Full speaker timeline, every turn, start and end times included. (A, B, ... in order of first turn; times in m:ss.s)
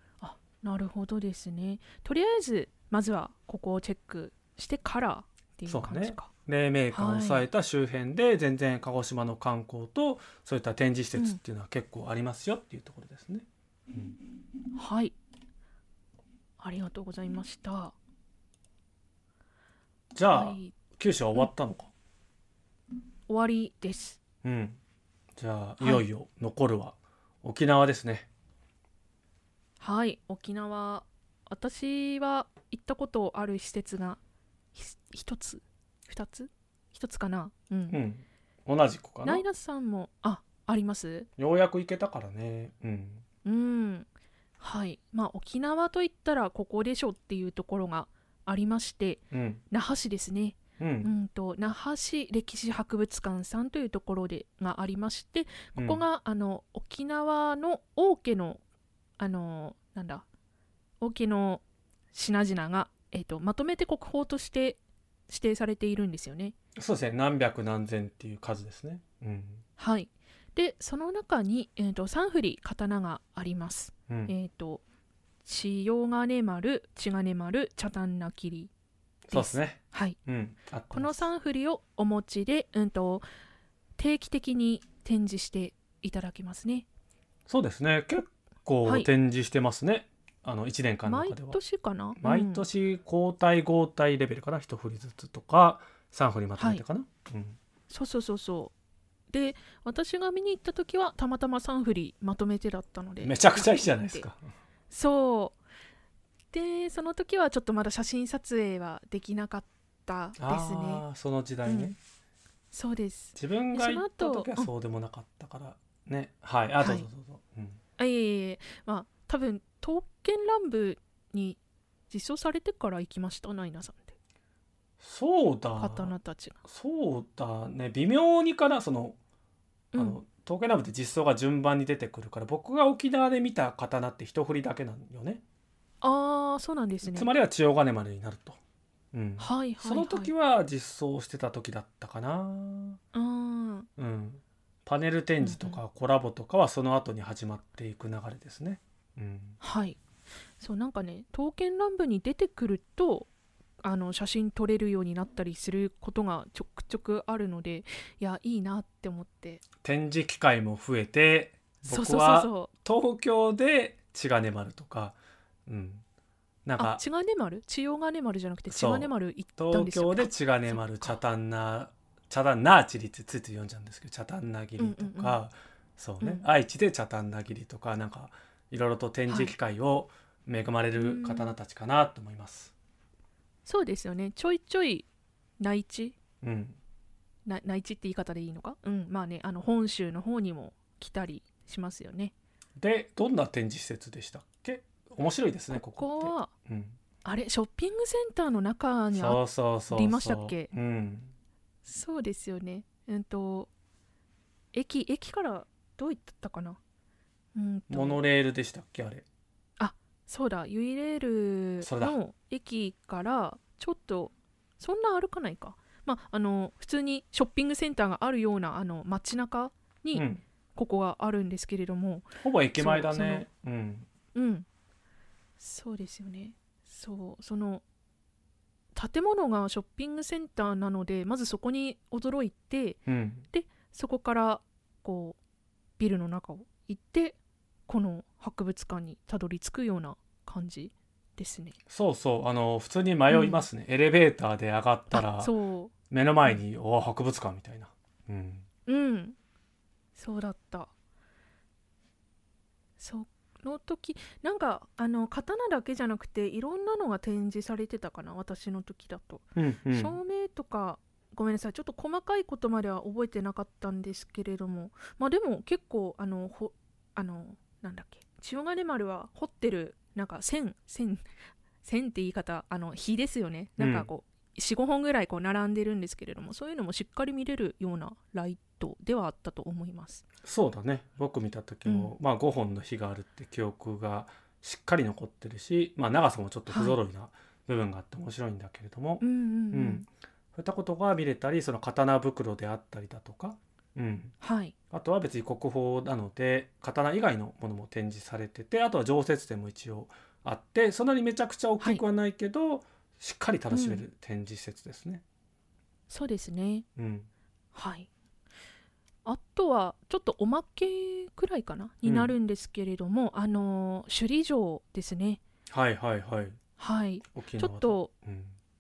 0:00.2-0:06.3 A
0:05.7-0:14.2 B
0:06.9-0:07.5 A
0:14.8-0:15.2 A
0:16.6-0:18.0 A
0:20.1-0:21.9 B
0:20.3-0:20.8 A
0:23.3-0:24.2 A
0:24.4-0:24.8 B
0:25.4-0:28.3 B
0:29.8-0:34.2 A
0:34.7-0:38.0 A
0:37.9-0:39.4 B
0:39.2-0:41.3 A
0:41.4-0:43.2 B
0:43.4-0:44.1 A
0:44.6-0:58.6 A
0:49.3-0:49.6 B
0:50.8-0:51.1 B
0:55.8-0:56.0 B
0:59.2-1:00.3 A
1:01.0-1:01.6 A
1:02.1-1:06.6 A
1:06.8-1:09.6 B
1:09.8-1:14.8 A
1:15.4-1:18.7 A
1:19.3-1:21.3 B
1:19.3-1:20.2 A
1:20.9-1:23.2 A
1:24.0-1:26.9 A
1:27.5-1:31.6 B
1:28.8-1:29.1 A
1:31.0-1:32.7 A
1:32.2-1:37.6 B
1:36.6-1:36.8 A
1:37.9-1:38.7 A
1:39.3-1:44.3 A
1:43.2-1:44.5 B
1:44.9-1:45.6 A
1:46.5-1:51.0 A
1:50.4-1:52.0 B
1:51.6-1:52.0 A
1:52.7-1:54.7 A
1:53.4-1:57.8 B
1:56.8-1:57.1 A
1:58.0-2:01.6 A
2:02.1-2:04.2 A
2:05.0-2:09.2 B
2:05.8-2:06.6 A
2:09.9-2:10.2 A
2:10.0-2:15.4 B
2:16.0-2:17.3 A
2:17.1-2:18.6 B
2:19.1-2:23.0 B
2:19.4-2:20.3 A
2:23.1-2:23.9 A
2:24.0-2:29.6 B
2:25.4-2:25.8 A
2:29.6-2:30.0 A
2:30.6-2:33.3 A
2:33.8-2:39.6 A
2:39.8-2:46.0 B
2:41.8-2:42.7 A
2:46.6-2:47.0 B
2:46.8-2:51.2 A
2:48.7-3:02.7 B
2:54.8-2:55.4 A
2:59.3-2:59.5 A
3:01.0-3:01.6 A
3:03.7-3:05.1 A
3:05.6-3:06.2 A
3:06.4-3:06.8 B
3:07.5-3:12.3 A
3:12.8-3:17.0 B
3:15.7-3:16.5 A
3:17.2-3:20.7 A
3:19.1-3:21.3 B
3:21.8-3:23.7 A
3:24.7-3:26.8 A
3:27.6-3:28.2 A
3:27.9-3:29.2 B
3:29.8-3:43.4 A
3:31.8-3:32.2 B
3:40.1-3:40.4 B
3:42.4-3:44.1 B
3:44.4-3:44.7 A
3:45.6-3:47.8 A
3:49.0-3:55.4 A
3:53.1-3:53.5 B
3:56.0-4:01.8 A
4:01.9-4:05.5 B
4:03.3-4:03.6 A
4:05.1-4:05.9 A
4:06.1-4:08.7 B
4:08.9-4:09.4 A
4:10.2-4:10.9 A
4:13.0-4:31.2 A
4:19.6-4:20.2 B
4:31.8-4:40.2 A
4:33.8-4:34.1 B
4:40.4-4:54.4 B
4:41.9-4:42.1 A
4:46.7-4:47.0 A
4:49.2-4:50.1 A
4:54.4-4:54.8 A
4:54.9-5:05.2 B
5:03.7-5:04.0 A
5:06.1-5:06.9 A
5:07.0-5:07.3 B
5:07.7-5:08.1 A
5:09.2-5:15.4 A
5:12.0-5:12.3 B
5:15.7-5:16.6 B
5:16.8-5:18.1 A
5:17.3-5:18.6 B